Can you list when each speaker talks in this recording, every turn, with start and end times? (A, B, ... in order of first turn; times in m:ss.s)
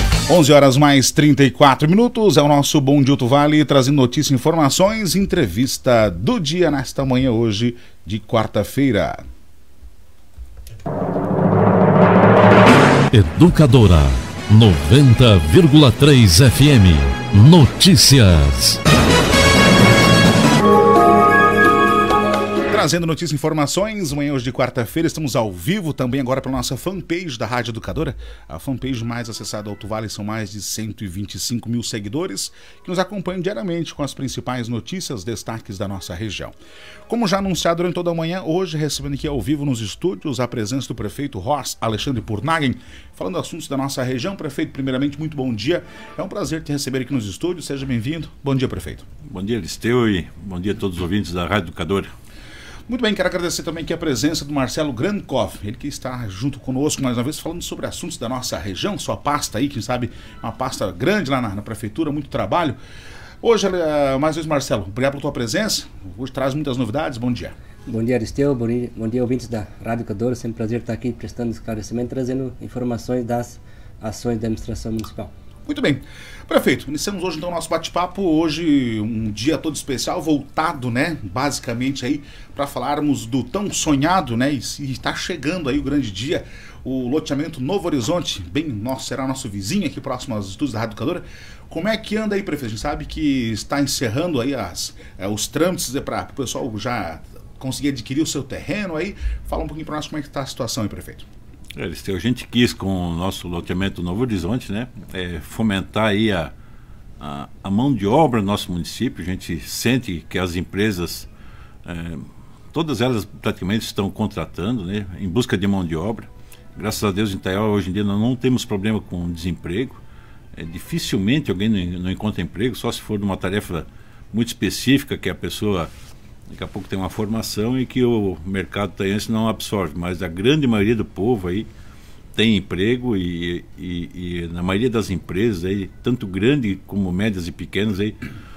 0:00.3-0:09.2 A
0:13.1-0:18.8 B
0:13.1-0:13.9 C
0:14.6-0:16.9 C
0:17.5-0:18.3 C
0:22.7-0:36.6 A
0:37.1-0:49.0 A
0:49.2-0:52.1 C
0:52.9-1:02.8 A
1:03.4-1:07.6 A
1:07.9-1:15.3 D
1:15.7-1:41.2 A
1:41.8-1:46.5 C
1:47.2-1:51.3 C
1:51.8-2:00.0 C
2:00.5-2:05.9 C
2:06.5-2:11.7 C
2:12.3-2:18.2 C